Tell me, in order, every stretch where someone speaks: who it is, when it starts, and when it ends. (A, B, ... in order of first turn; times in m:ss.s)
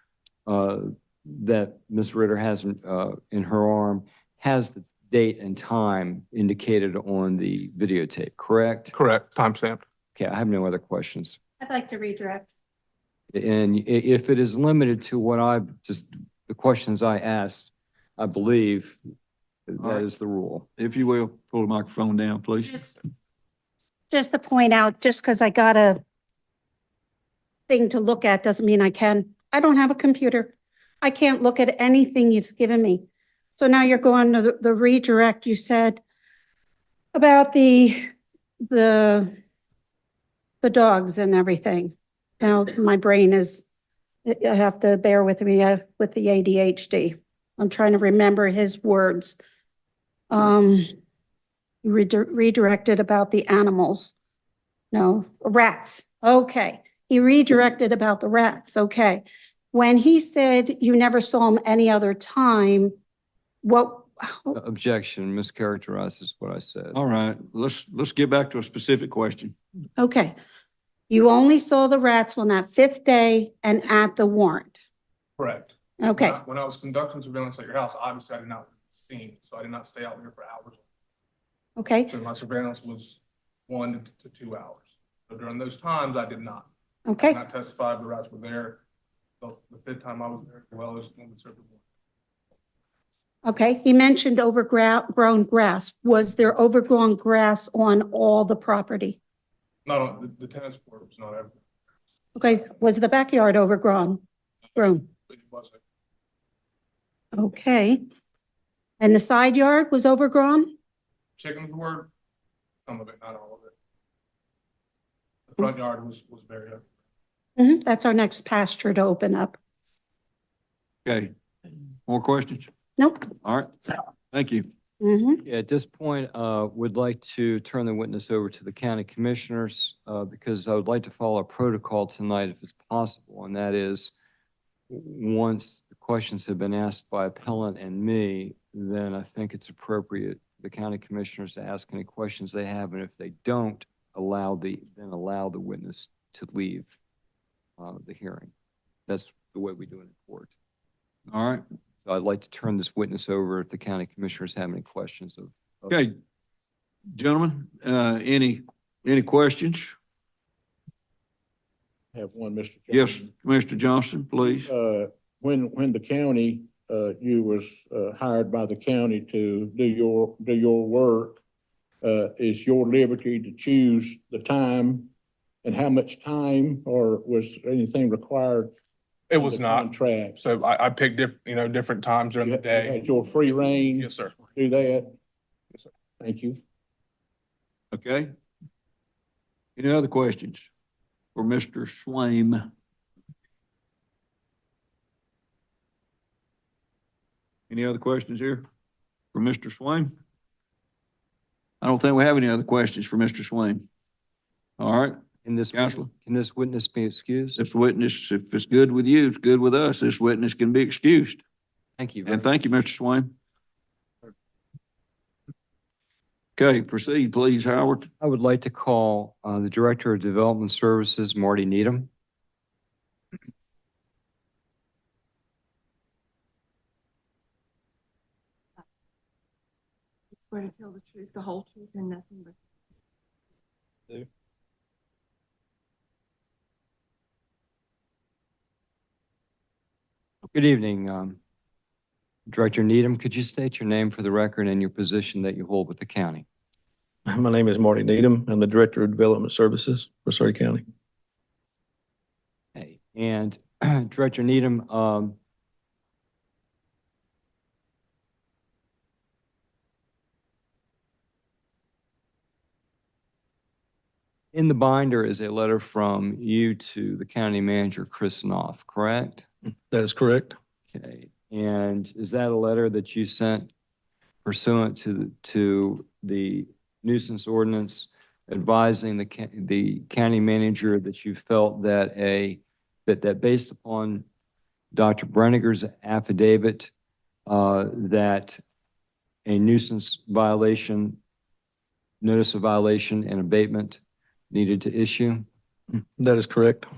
0:00.5-0:08.9 A
0:08.9-0:09.8 B
0:10.2-0:11.4 A
0:11.6-0:12.5 C
0:13.3-0:19.0 A
0:19.7-0:20.7 A
0:20.8-0:22.9 D
0:24.1-0:26.0 C
0:27.7-0:33.0 C
0:33.6-0:36.0 C
0:37.1-0:38.0 C
0:38.7-0:39.3 C
0:40.6-0:43.6 C
0:44.3-0:49.4 C
0:50.3-0:50.9 C
0:51.8-0:54.1 C
0:54.9-1:03.0 C
1:03.6-1:04.5 C
1:04.5-1:07.0 A
1:06.9-1:09.6 D
1:10.0-1:10.4 C
1:11.1-1:14.8 C
1:15.4-1:20.8 B
1:16.0-1:16.4 C
1:21.8-1:22.1 C
1:22.1-1:28.8 B
1:27.1-1:27.4 C
1:29.4-1:31.8 B
1:33.4-1:39.2 C
1:39.9-1:41.6 B
1:42.4-1:44.2 C
1:44.8-1:45.1 C
1:45.3-1:45.8 B
1:47.4-1:48.0 C
1:49.0-1:50.7 C
1:51.4-1:52.1 B
1:52.9-1:53.7 B
1:55.5-1:56.9 B
1:57.6-1:59.6 C
2:01.1-2:01.3 D
2:02.1-2:02.7 D
2:03.0-2:03.3 C
2:03.4-2:03.7 D
2:04.3-2:04.7 D
2:05.0-2:05.4 C
2:05.4-2:14.1 A
2:14.9-2:26.9 A
2:27.8-2:28.5 A
2:29.1-2:30.5 A
2:31.3-2:31.6 D
2:32.0-2:35.5 A
2:35.9-2:36.1 D
2:37.1-2:40.0 D
2:42.1-2:43.3 E
2:42.9-2:44.7 D
2:44.5-2:51.4 E
2:52.0-2:55.1 E
2:55.6-2:58.7 E
2:59.3-3:03.1 B
2:59.4-3:00.4 E
3:02.4-3:05.1 E
3:03.9-3:04.4 B
3:06.2-3:06.6 E
3:07.9-3:08.3 D
3:09.8-3:10.7 D
3:11.4-3:12.7 D
3:17.7-3:18.7 D
3:19.3-3:20.1 D
3:21.8-3:23.8 D
3:24.8-3:26.1 D
3:25.4-3:27.6 A
3:27.6-3:31.4 D
3:32.0-3:32.5 A
3:32.3-3:33.3 D
3:36.6-3:38.1 D
3:38.2-3:42.1 A
3:50.4-3:52.6 F
4:00.5-4:01.4 A
4:02.5-4:06.5 A
4:07.3-4:10.8 G
4:12.8-4:15.4 A
4:24.5-4:29.5 A
4:29.9-4:30.6 G
4:30.9-4:33.7 A
4:34.4-4:44.2 A
4:44.9-4:46.9 A
4:47.5-4:48.6 A
4:49.5-4:51.2 A
4:52.2-4:55.4 A
4:55.9-4:56.9 G